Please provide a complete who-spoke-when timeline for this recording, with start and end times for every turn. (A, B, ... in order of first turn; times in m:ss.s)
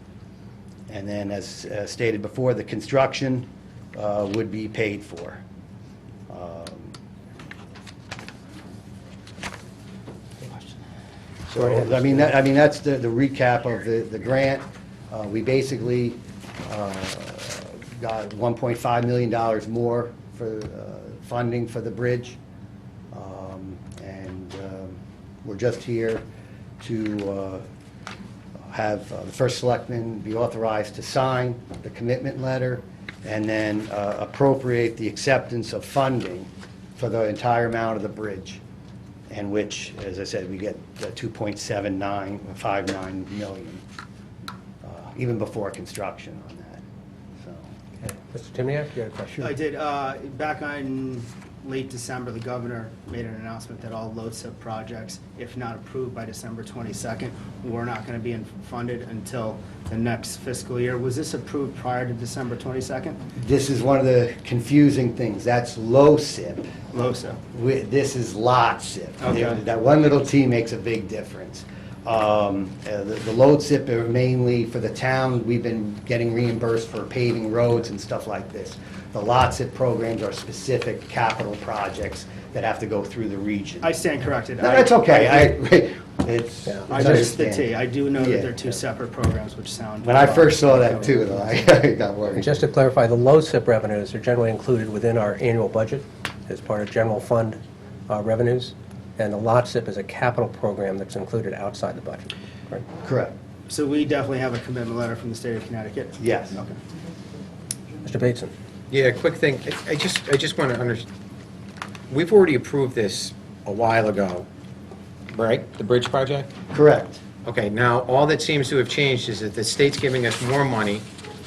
0:00.9-0:05.4 A
0:06.3-0:06.9 A
0:11.5-0:12.2 B
0:11.5-0:22.4 A
0:23.1-0:26.2 A
0:26.8-0:27.6 A
0:28.7-0:38.6 A
0:39.3-0:43.8 A
0:44.8-0:46.8 A
0:47.4-0:47.7 A
0:48.0-0:49.5 B
0:49.4-1:03.2 C
1:03.4-1:06.9 A
1:06.9-1:07.4 C
1:07.5-1:23.9 A
1:09.2-1:09.6 C
1:23.8-1:25.5 C
1:24.6-1:28.7 A
1:26.7-1:27.2 B
1:26.9-1:31.6 C
1:30.0-1:32.5 A
1:32.4-1:37.6 B
1:38.1-1:42.8 B
1:43.0-1:43.3 A
1:43.7-1:46.8 C
1:46.2-1:46.6 A
1:48.0-1:48.5 B
1:48.9-1:51.0 D
1:52.1-1:54.5 D
1:55.3-1:56.5 D
1:56.7-1:57.2 A
1:57.4-2:01.0 D